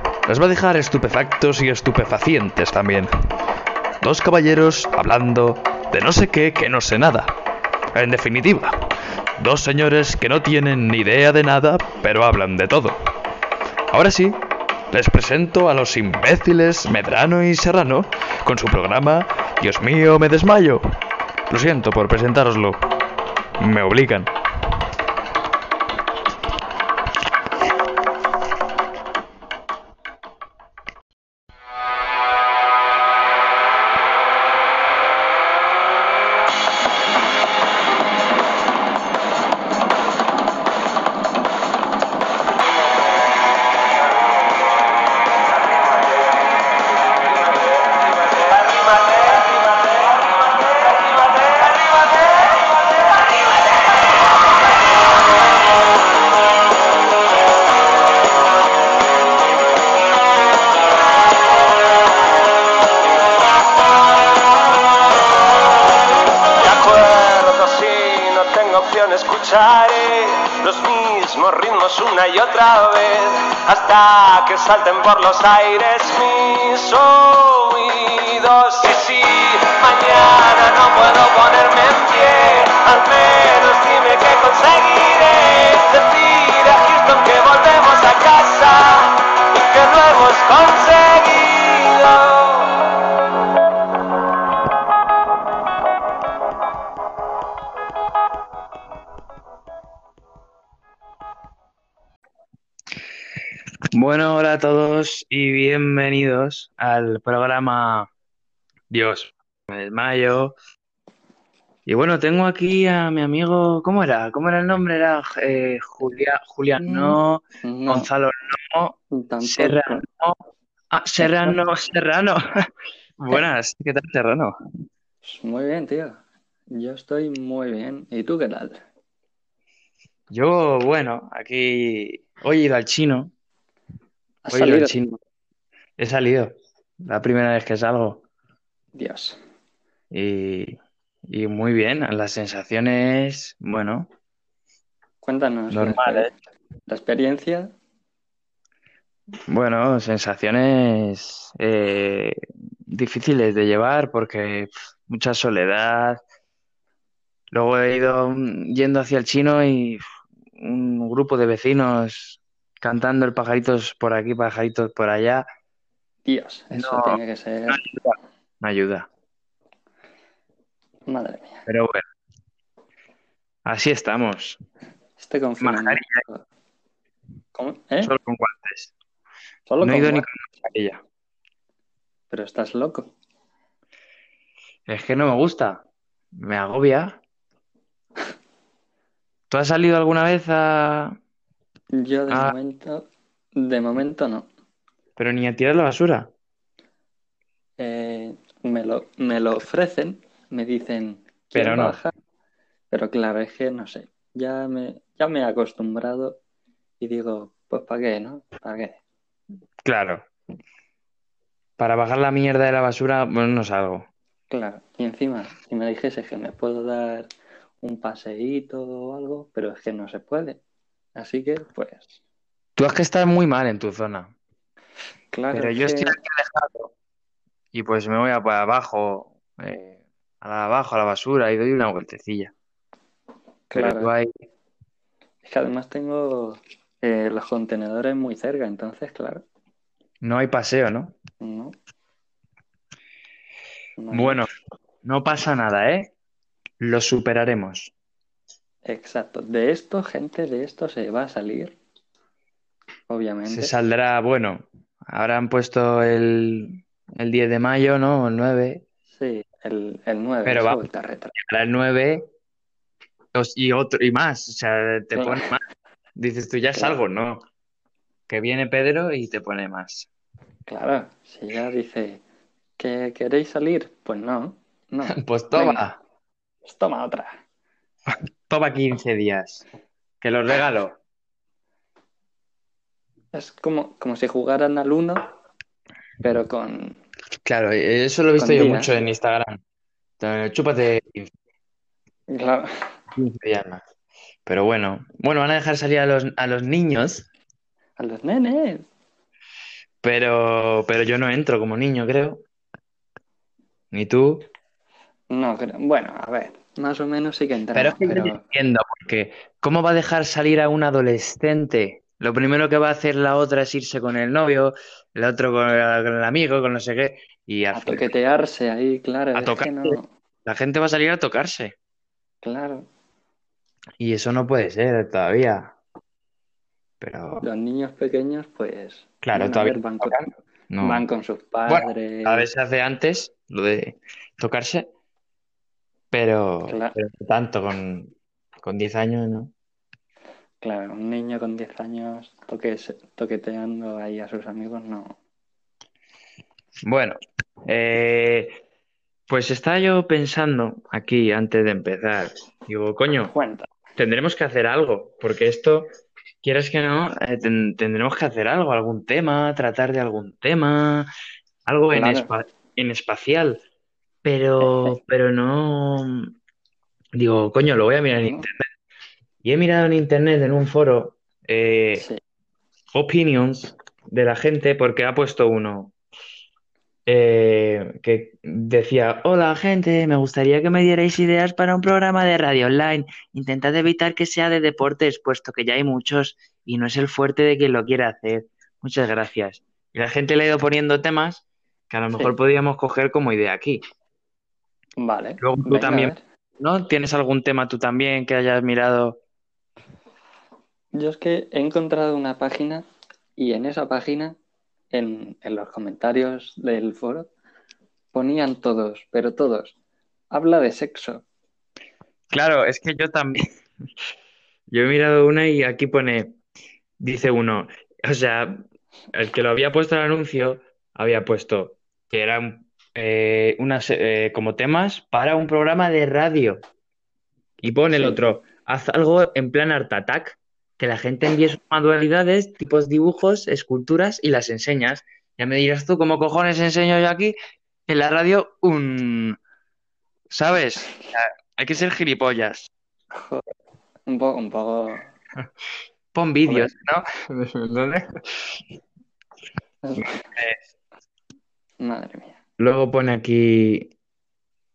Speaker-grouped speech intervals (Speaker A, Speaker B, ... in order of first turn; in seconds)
Speaker A: 0.3-3.1, 4.0-7.3, 7.9-8.7, 9.4-12.9, 13.9-14.3, 14.9-20.8, 21.5-22.8, 23.6-24.2
Speaker B: 10.0-12.7, 14.0-14.2, 17.9-19.1, 19.6-20.6, 21.5-22.3, 103.9-108.1, 108.9-110.5, 111.8-120.4, 120.9-124.5, 130.3-133.3, 134.5-135.1, 136.0-138.2, 140.1-140.8, 141.3-144.1, 145.7-146.3, 149.5-156.2, 157.5-160.0, 160.6-165.4, 166.7-169.1, 171.7-172.0, 173.7-174.6, 175.6-176.2, 178.0-178.9, 179.8-181.0, 184.9-185.8, 186.3-187.2, 189.5-191.2, 192.3-192.5, 195.2-196.3, 201.5-202.0, 209.8-210.2, 211.8-214.1, 222.8-224.3, 225.5-226.9, 227.7-232.5, 233.7-234.3, 240.2-241.2, 244.1-244.5, 245.0-246.1, 246.8-247.9, 253.4-258.8, 260.4-260.8, 261.3-262.3, 263.3-265.6, 266.1-267.4, 268.3-270.1, 275.1-276.0, 278.1-279.6, 280.2-281.0, 287.4-289.6, 290.2-291.3, 293.1-293.8, 294.4-297.2, 300.0-302.4, 303.9-304.4, 307.7-318.1, 319.3-321.7, 324.0-325.7, 327.0-327.4, 329.2-331.1, 331.7-334.9, 336.1-338.1, 338.6-339.5, 346.8-348.5, 349.3-353.3, 353.9-355.9, 356.4-361.1, 361.6-363.6, 364.2-366.3, 367.1-368.6, 369.4-372.1, 372.9-375.9, 377.1-393.8, 395.4-399.2, 412.3-413.4, 414.7-416.4, 417.0-426.6, 427.6-439.4, 440.3-442.7, 446.1-448.6, 450.0-450.6, 452.6-453.9
Speaker C: 48.2-52.5, 66.6-92.8
Speaker D: 116.8-118.1, 119.1-120.0, 121.2-121.6, 125.2-128.8, 134.4-135.2, 138.9-139.4, 145.2-146.3, 146.9-147.7, 166.2-167.8, 171.1-171.6, 175.2-176.4, 177.5-178.1, 179.7-180.3, 182.3-183.1, 191.9-193.0, 193.6-194.5, 197.8-202.1, 202.9-206.4, 207.0-209.0, 214.5-217.3, 217.8-220.6, 221.2-222.2, 225.3-226.2, 233.7-234.1, 235.4-239.4, 241.4-241.8, 244.0-244.4, 248.8-251.8, 253.1-253.7, 259.1-261.3, 265.1-265.5, 270.7-272.2, 272.8-275.8, 276.6-277.4, 283.3-285.3, 286.2-287.0, 288.4-288.9, 292.3-292.9, 298.0-298.9, 305.3-308.4, 317.7-320.1, 322.4-322.9, 327.4-332.5, 336.7-336.9, 340.6-345.2, 353.3-353.7, 361.9-362.3, 364.6-364.9, 395.0-396.2, 400.9-402.8, 403.4-404.4, 404.9-407.3, 408.1-409.8, 410.3-411.2, 427.9-428.2, 443.1-443.4, 444.1-445.1, 446.4-446.7, 449.8-450.3, 451.8-452.4